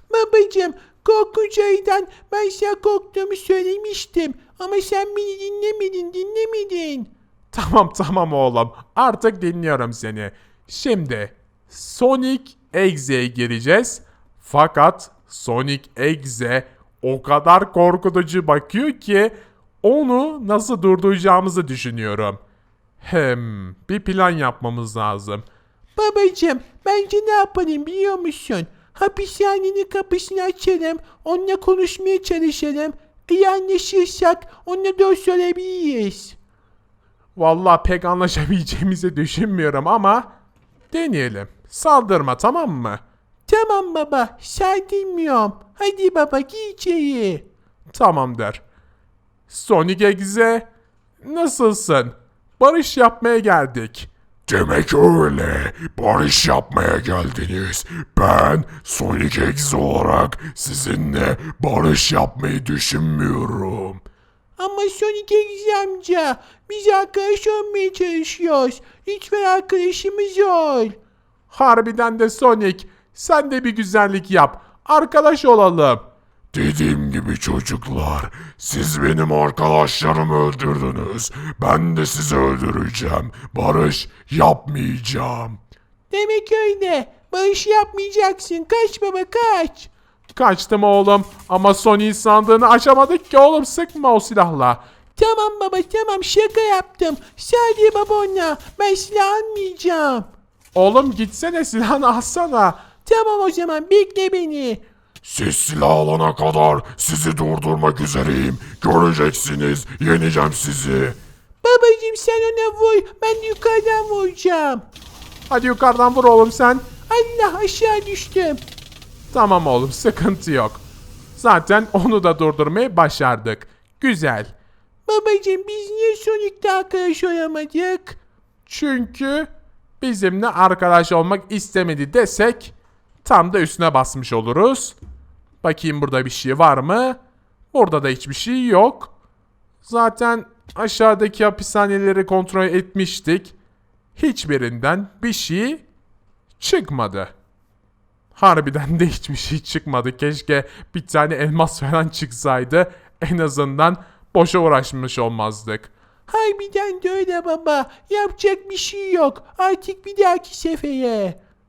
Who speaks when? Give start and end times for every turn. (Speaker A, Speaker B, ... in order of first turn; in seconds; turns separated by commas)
Speaker A: 0.1-7.1, Speaker B: 7.5-22.4, Speaker B: 23.0-25.4, Speaker A: 25.9-36.4, Speaker B: 37.4-40.3, Speaker B: 40.9-43.0, Speaker A: 43.5-47.4, Speaker B: 47.9-48.6, Speaker B: 49.5-50.7, Speaker B: 51.2-54.1, Speaker C: 54.5-64.0, Speaker A: 64.6-70.9, Speaker B: 71.5-76.0, Speaker C: 76.5-85.6, Speaker A: 86.1-89.9, Speaker B: 90.3-94.8, Speaker A: 95.2-100.3, Speaker B: 100.7-102.9, Speaker A: 103.0-104.8, Speaker C: 105.2-111.2, Speaker A: 111.6-114.8, Speaker B: 115.5-117.0, Speaker A: 117.1-118.6, Speaker B: 119.3-120.8, Speaker B: 121.3-124.5, Speaker A: 125.1-128.2, Speaker B: 128.7-129.5, Speaker B: 130.0-134.9, Speaker B: 135.6-137.2, Speaker B: 137.7-139.1, Speaker B: 139.8-143.6, Speaker B: 144.2-145.8, Speaker B: 146.6-147.3, Speaker B: 148.3-155.9, Speaker A: 156.3-161.4